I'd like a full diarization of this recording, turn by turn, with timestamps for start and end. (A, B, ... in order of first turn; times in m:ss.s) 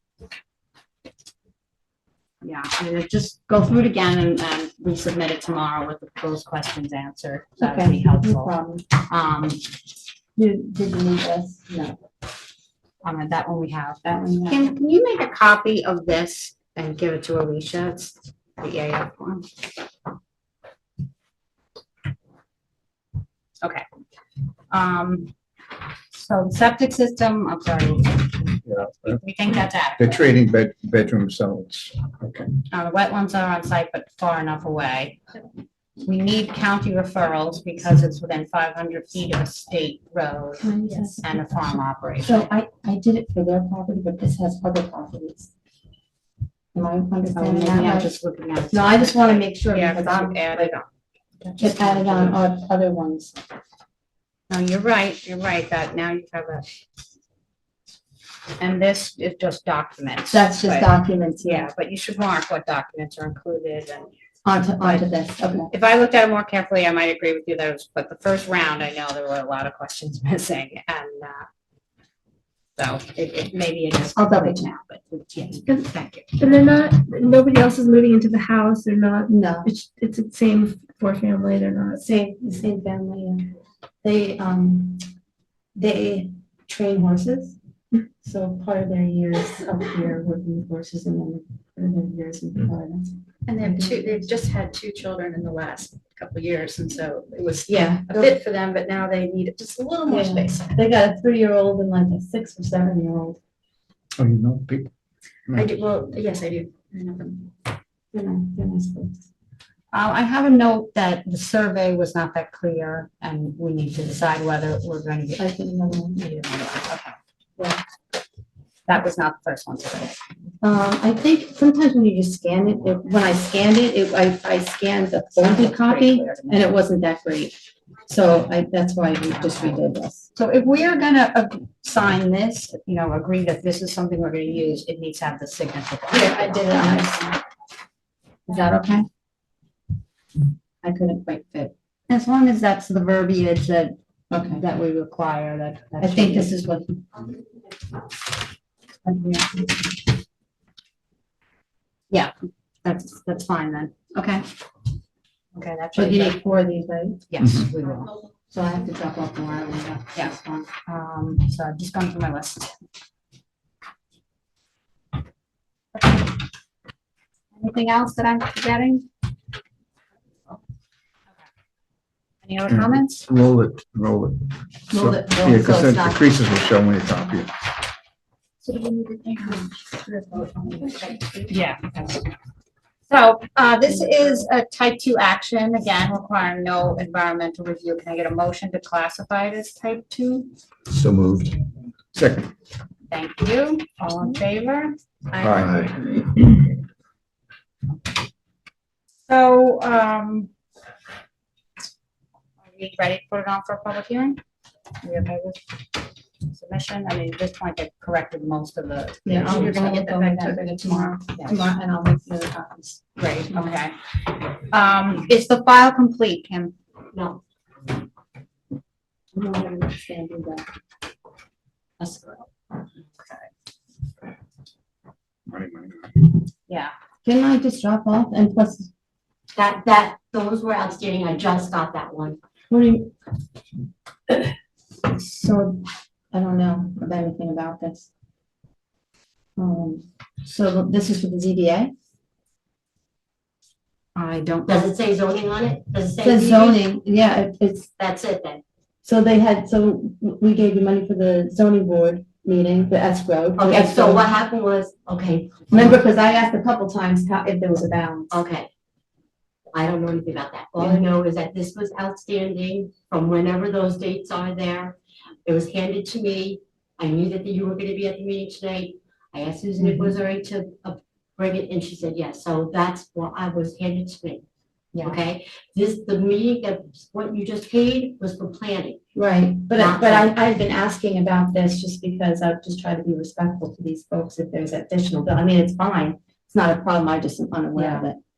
0:02.4-0:09.6 A
0:07.6-0:08.9 B
0:10.4-0:12.0 B
0:13.0-0:19.4 A
0:14.0-0:14.7 B
0:24.7-0:25.3 A
0:26.1-0:30.3 A
0:28.7-0:29.2 C
0:30.0-0:32.5 C
0:32.7-0:35.2 A
0:36.0-0:42.5 A
0:40.6-0:41.6 B
0:42.2-0:45.5 B
0:46.7-0:48.1 B
0:47.3-0:50.9 A
0:48.7-0:50.8 B
0:51.4-0:52.4 A
0:51.6-0:53.3 B
0:54.5-0:56.6 A
0:58.6-1:04.1 A
1:00.3-1:01.7 B
1:04.4-1:05.7 B
1:04.8-1:05.1 A
1:05.7-1:11.4 A
1:12.8-1:16.4 A
1:14.1-1:14.6 B
1:16.4-1:22.0 D
1:19.3-1:19.7 B
1:22.0-1:23.4 B
1:24.0-1:25.0 B
1:25.8-1:27.6 B
1:28.2-1:34.3 B
1:33.5-1:40.6 E
1:37.7-1:38.3 B
1:40.1-1:43.4 B
1:44.2-1:44.9 C
1:45.6-1:47.4 E
1:48.1-1:49.2 B
1:49.9-1:55.5 A
1:55.4-1:56.2 B
1:56.1-1:57.2 A
1:58.9-2:00.2 A
2:00.6-2:07.5 B
2:05.3-2:06.7 A
2:08.1-2:10.3 B
2:09.4-2:09.8 A
2:10.3-2:17.4 A
2:16.1-2:17.3 B
2:18.5-2:19.0 A
2:20.8-2:21.7 B
2:22.1-2:24.0 A
2:24.3-2:24.6 B
2:24.6-2:26.9 A
2:26.0-2:26.8 B
2:29.0-2:29.6 A
2:32.8-2:34.4 A
2:35.5-2:36.4 A
2:35.9-2:37.2 B
2:37.3-2:38.1 A
2:38.5-2:40.7 B
2:40.1-2:42.7 A
2:45.9-2:46.3 A
2:47.5-2:49.0 A
2:52.4-2:53.3 A
2:52.7-2:57.5 C
2:54.9-2:56.2 B
2:59.4-3:01.5 B
3:01.5-3:02.2 A
3:03.1-3:10.5 A
3:10.9-3:11.5 C
3:12.1-3:12.5 C
3:13.1-3:14.9 A
3:15.4-3:15.9 C
3:19.3-3:20.5 A
3:22.6-3:24.4 A
3:25.0-3:25.6 A
3:26.5-3:31.7 A
3:29.2-3:33.6 B
3:33.2-3:33.9 A
3:34.6-3:36.7 A
3:37.1-3:37.4 F
3:39.3-3:40.6 B
3:42.0-3:42.4 A
3:45.5-3:46.1 C
3:46.7-3:46.9 A
3:47.2-3:48.9 B
3:49.5-3:52.4 F
3:52.7-3:53.1 B
3:55.1-3:58.1 B
3:59.6-4:01.9 B
4:04.2-4:04.9 A
4:04.7-4:06.8 F
4:06.2-4:07.9 B
4:08.0-4:08.6 F
4:09.0-4:14.3 B
4:13.6-4:16.0 F
4:15.7-4:18.3 B
4:18.3-4:18.7 F
4:19.7-4:34.4 F
4:20.8-4:21.0 B
4:29.8-4:30.2 B
4:35.0-4:39.0 F
4:39.1-4:48.2 B
4:39.7-4:40.3 F
4:47.7-4:48.1 A